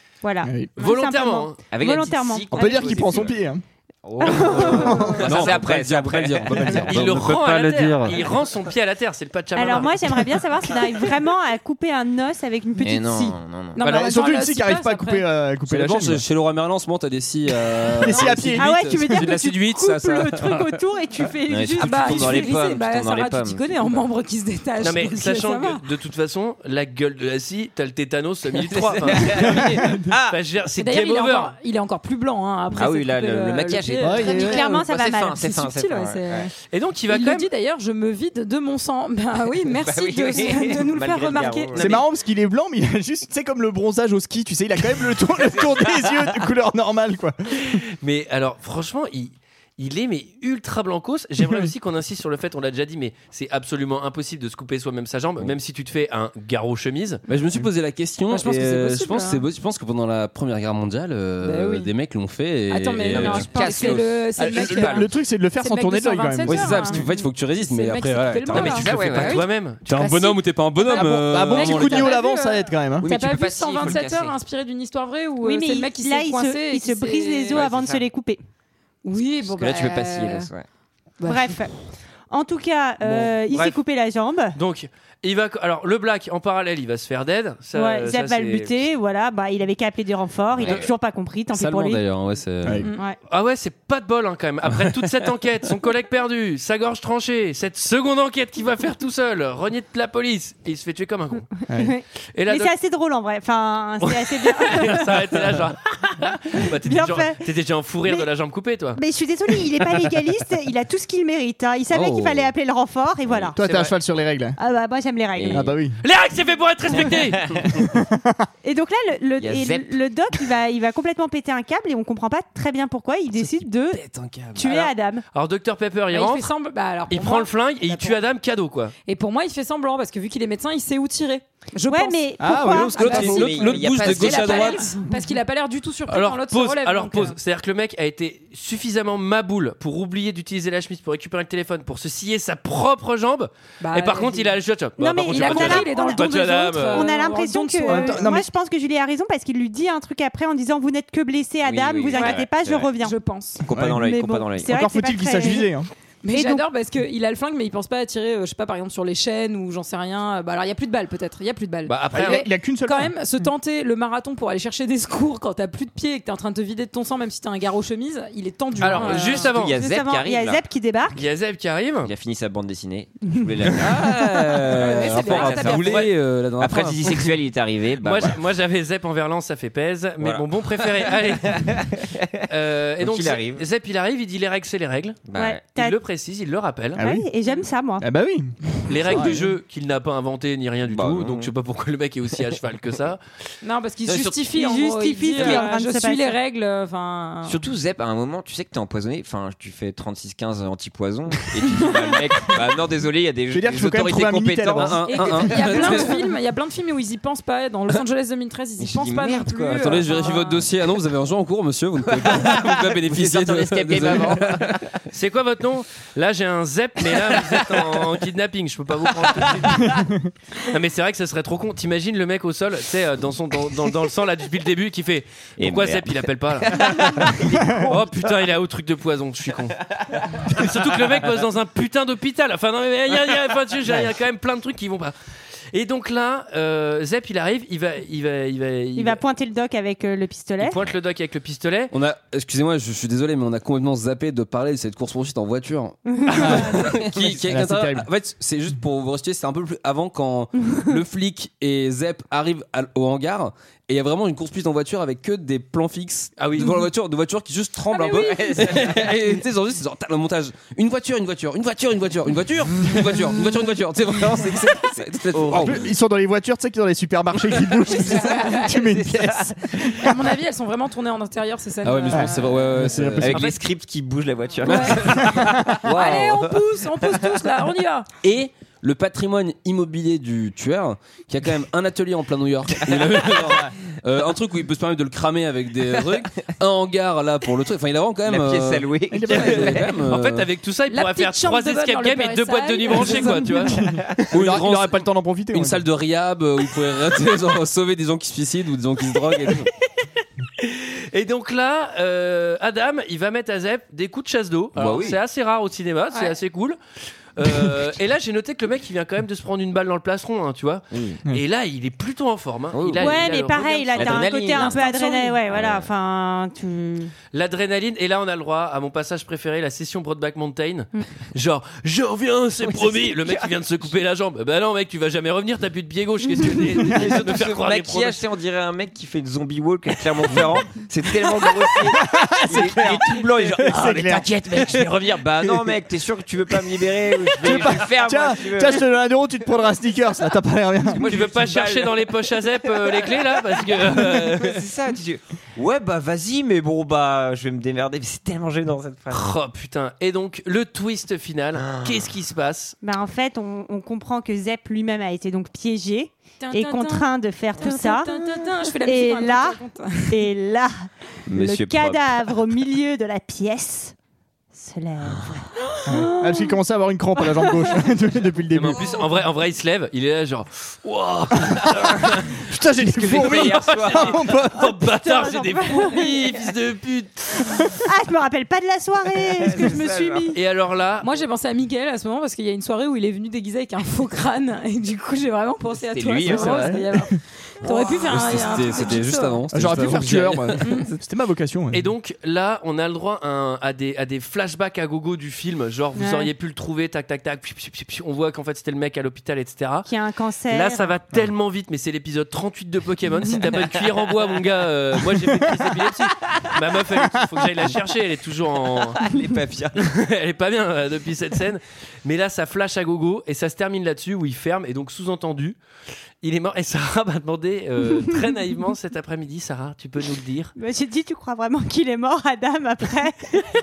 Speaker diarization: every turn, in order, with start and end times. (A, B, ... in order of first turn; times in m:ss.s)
0:00.2-0:03.1 A
0:00.8-0:01.6 B
0:01.7-0:03.4 C
0:02.5-0:03.6 D
0:04.0-0:07.5 C
0:04.2-0:05.2 A
0:04.3-0:05.2 D
0:05.2-0:08.2 E
0:06.8-0:10.0 B
0:09.6-0:13.4 A
0:12.8-0:14.0 C
0:13.7-0:15.2 F
0:13.8-0:16.2 D
0:15.7-0:20.8 E
0:18.0-0:19.2 D
0:18.2-0:22.6 A
0:21.5-0:23.9 C
0:21.8-0:25.8 F
0:24.8-0:31.5 B
0:28.6-0:30.4 C
0:29.6-0:30.1 D
0:30.8-0:36.5 F
0:32.7-0:36.5 C
0:34.0-0:34.6 D
0:34.2-0:35.4 A
0:36.7-0:37.5 B
0:37.1-0:41.9 F
0:39.8-0:42.0 C
0:41.7-0:47.8 D
0:45.5-0:46.3 C
0:47.6-0:57.2 B
0:57.3-1:04.0 E
0:58.3-0:59.4 F
1:01.4-1:01.9 F
1:02.7-1:17.6 F
1:03.0-1:05.0 C
1:04.4-1:07.0 D
1:06.4-1:12.2 E
1:08.5-1:09.4 C
1:09.2-1:10.0 B
1:11.2-1:13.1 D
1:13.0-1:14.4 C
1:15.4-1:18.4 A
1:17.5-1:18.0 C
1:19.0-1:20.5 F
1:19.4-1:20.6 C
1:21.2-1:21.6 F
1:21.2-1:21.7 A
1:22.3-1:24.6 A
1:23.1-1:23.8 B
1:24.5-1:28.8 B
1:27.7-1:32.0 A
1:30.5-1:30.9 C
1:30.6-1:30.9 B
1:31.5-1:32.8 E
1:32.6-1:32.9 D
1:33.3-1:41.5 B
1:41.7-1:45.5 A
1:42.3-1:42.7 B
1:44.0-1:49.0 B
1:46.6-1:47.4 A
1:49.0-1:53.6 A
1:51.9-1:52.5 E
1:53.2-1:53.5 C
1:53.5-1:54.6 D
1:53.6-1:53.9 B
1:54.6-1:55.7 A
1:55.4-1:55.7 C
1:55.5-1:56.0 D
1:56.0-1:57.4 B
1:57.4-1:57.8 C
1:57.8-1:58.4 D
1:58.6-2:04.0 A
1:59.4-2:00.0 C
2:03.9-2:04.7 E
2:04.5-2:05.2 A
2:04.6-2:06.5 B
2:06.1-2:08.2 F
2:07.1-2:08.9 B
2:09.0-2:17.4 F
2:11.9-2:13.3 A
2:12.4-2:13.3 D
2:13.0-2:14.9 E
2:13.0-2:14.8 C
2:16.1-2:27.1 B
2:23.8-2:24.6 F
2:25.0-2:26.3 A
2:25.3-2:28.4 F
2:26.8-2:33.2 A
2:27.8-2:28.5 D
2:31.6-2:32.9 C
2:32.1-2:33.6 F
2:33.6-2:34.8 C
2:33.7-2:34.0 D
2:33.9-2:35.7 A
2:34.6-2:35.9 D
2:36.2-2:49.6 F
2:36.3-2:36.6 A
2:41.8-2:42.5 B
2:42.1-2:43.1 D
2:48.8-2:49.8 B
2:49.0-2:50.6 C
2:49.7-2:51.2 A
2:51.1-2:52.1 B
2:52.0-2:58.4 C
2:53.8-2:57.3 E
2:54.7-2:56.0 F
2:55.8-2:56.1 B
2:58.0-3:01.7 B
3:00.2-3:02.4 C
3:02.5-3:05.2 B
3:03.0-3:03.6 C
3:05.3-3:05.6 C
3:05.3-3:06.0 A
3:05.8-3:07.0 B
3:07.0-3:07.3 D
3:07.0-3:08.1 A
3:08.0-3:09.4 D
3:08.9-3:13.2 B
3:10.9-3:11.5 C
3:13.6-3:17.6 F
3:14.0-3:14.4 B
3:14.5-3:16.4 A
3:17.4-3:26.1 C
3:23.5-3:25.0 D
3:24.7-3:26.2 E
3:25.0-3:30.6 F
3:28.8-3:30.0 C
3:29.8-3:34.8 E
3:32.1-3:35.0 C
3:35.1-3:40.0 B
3:37.3-3:37.8 C
3:39.2-3:39.8 C
3:39.9-3:40.3 D
3:40.6-3:49.8 B
3:45.6-3:48.0 C
3:47.6-3:47.9 D
3:50.3-3:55.1 B
3:55.7-3:59.2 B
3:59.0-4:00.8 A
4:00.6-4:01.9 B
4:01.9-4:25.8 E
4:06.1-4:06.9 A
4:06.4-4:08.1 D
4:16.4-4:16.7 B
4:17.9-4:18.8 F
4:18.2-4:19.2 C
4:24.3-4:25.9 C
4:25.5-4:30.1 D
4:28.0-4:28.8 F
4:28.7-4:30.0 C
4:30.0-4:32.7 F
4:31.8-4:33.5 E
4:32.1-4:33.4 D
4:33.2-4:36.6 C
4:34.6-4:38.1 F
4:34.7-4:36.3 E
4:38.2-4:50.5 E
4:43.0-4:43.2 C
4:48.2-4:50.0 C
4:49.1-4:49.8 D
4:50.0-4:53.7 B
4:50.9-4:53.9 F
4:53.8-4:54.3 C
4:53.9-4:55.8 D
4:54.3-4:59.7 E
5:00.6-5:06.8 B
5:04.8-5:05.2 C
5:07.4-5:14.5 B
5:10.9-5:11.2 C
5:12.7-5:14.8 C
5:13.0-5:17.1 A
5:14.5-5:15.4 F
5:15.4-5:15.9 C
5:17.3-5:28.2 B
5:22.7-5:23.5 C
5:26.9-5:38.8 C
5:31.7-5:34.8 D
5:35.4-5:35.7 D
5:37.3-5:41.0 D
5:40.9-5:49.3 C
5:41.0-5:44.6 B
5:49.1-5:52.8 B
5:51.6-5:52.1 C
5:52.8-6:03.9 A
5:56.4-6:00.3 F
6:01.3-6:02.4 C
6:04.5-6:05.4 A
6:05.1-6:05.4 C
6:05.8-6:06.5 F
6:05.9-6:08.8 D
6:08.5-6:17.7 B
6:12.3-6:14.7 D
6:13.0-6:14.2 C
6:14.8-6:16.3 A
6:17.8-6:20.4 A
6:19.4-6:20.4 C
6:20.3-6:21.1 B
6:21.0-6:29.5 F
6:25.8-6:26.8 C
6:26.2-6:27.1 D
6:27.6-6:28.0 C
6:28.0-6:30.6 E
6:29.5-6:31.9 D
6:30.6-6:30.9 F
6:31.7-6:39.9 B
6:36.0-6:36.3 A
6:39.8-6:41.0 A
6:40.5-6:49.0 B
6:46.2-6:46.5 C
6:48.8-6:49.9 C
6:49.8-6:55.6 B
6:56.2-7:00.5 B
7:00.6-7:03.4 A